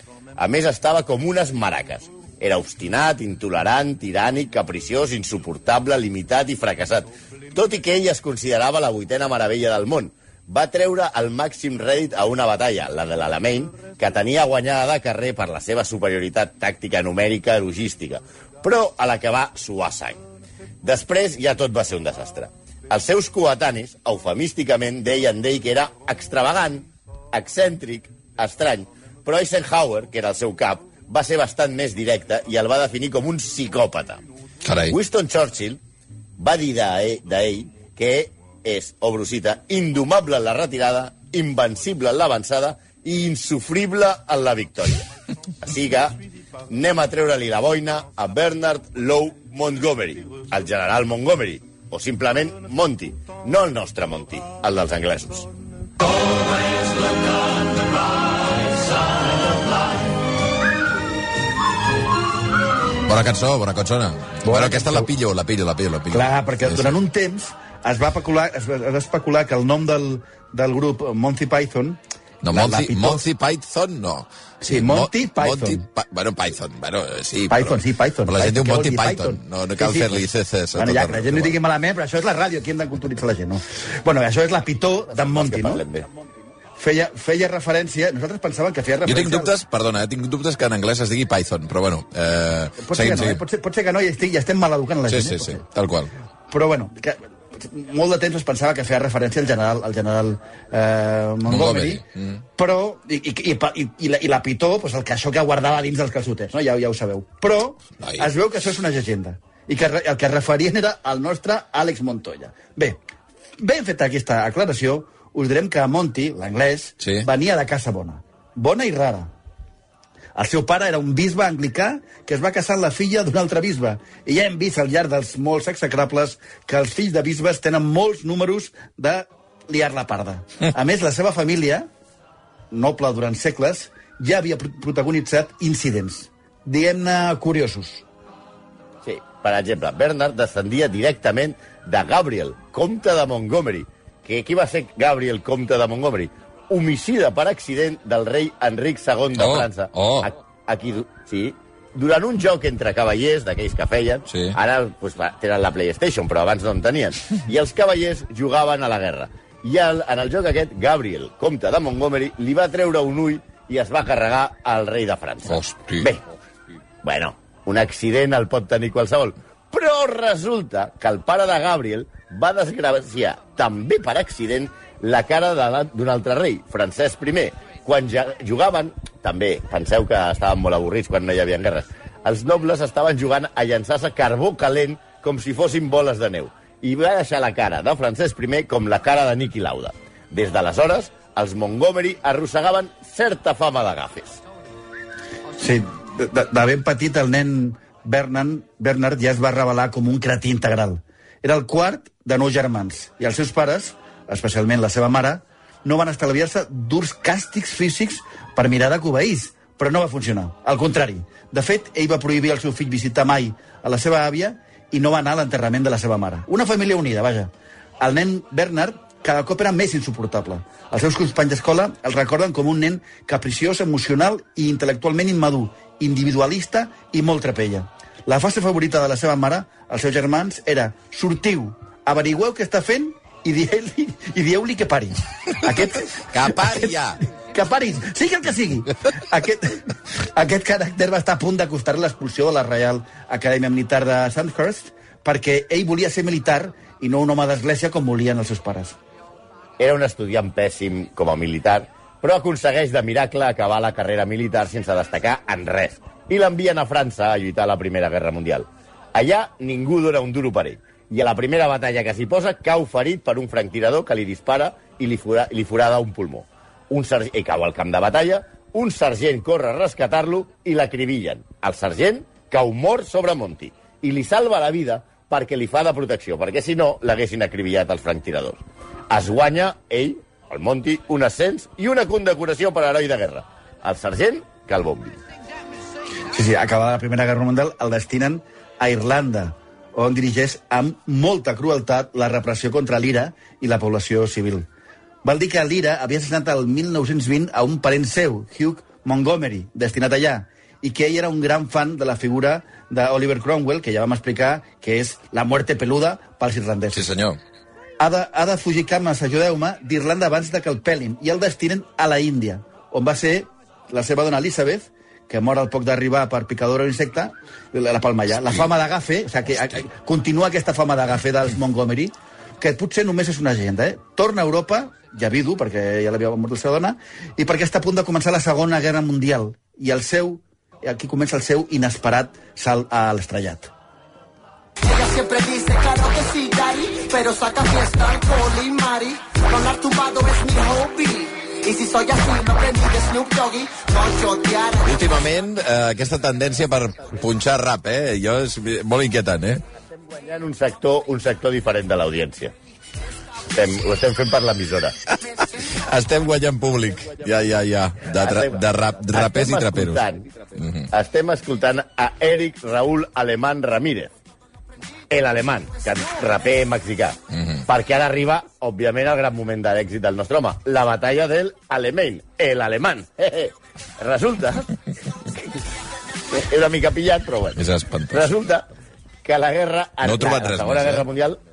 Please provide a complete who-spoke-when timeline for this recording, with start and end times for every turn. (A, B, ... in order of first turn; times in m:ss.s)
0:00.4-0:20.2 A
0:20.8-0:34.2 A
0:34.6-0:35.0 B
0:34.9-0:35.8 A
0:36.4-0:45.1 A
0:45.6-0:55.5 A
1:03.0-1:07.0 B
1:04.4-1:05.1 C
1:06.1-1:12.0 C
1:12.4-1:21.6 B
1:12.5-1:13.2 C
1:14.6-1:15.8 C
1:17.5-1:25.8 C
1:25.1-1:26.1 A
1:26.8-1:29.5 C
1:29.0-1:33.4 B
1:32.8-1:35.6 C
1:35.0-1:36.1 B
1:36.5-1:42.0 C
1:41.4-1:42.4 B
1:42.6-1:53.0 C
1:48.0-1:48.3 B
1:53.6-1:59.3 C
1:57.0-1:57.3 B
2:00.4-2:11.9 C
2:12.7-2:18.0 C
2:19.0-2:46.2 A
2:29.3-2:30.3 B
2:34.3-2:34.6 B
2:45.4-2:46.1 B
2:47.0-3:14.4 A
3:15.6-3:57.0 C
3:56.2-3:57.2 B
3:57.5-4:09.0 C
4:09.8-4:45.2 A
4:46.3-4:54.6 C
4:55.2-5:07.1 C
5:06.9-5:07.4 B
5:08.0-5:33.7 C
5:18.3-5:18.7 B
5:34.8-5:45.0 D
5:44.8-5:49.6 B
5:50.1-5:52.5 A
5:53.5-5:55.0 A
5:55.1-6:00.9 B
5:58.2-6:00.2 A
6:00.9-6:04.1 A
6:05.1-6:14.7 A
6:07.3-6:07.6 B
6:15.3-6:15.5 A
6:16.3-6:18.7 A
6:17.6-6:18.3 B
6:19.2-6:21.4 A
6:20.0-6:21.0 B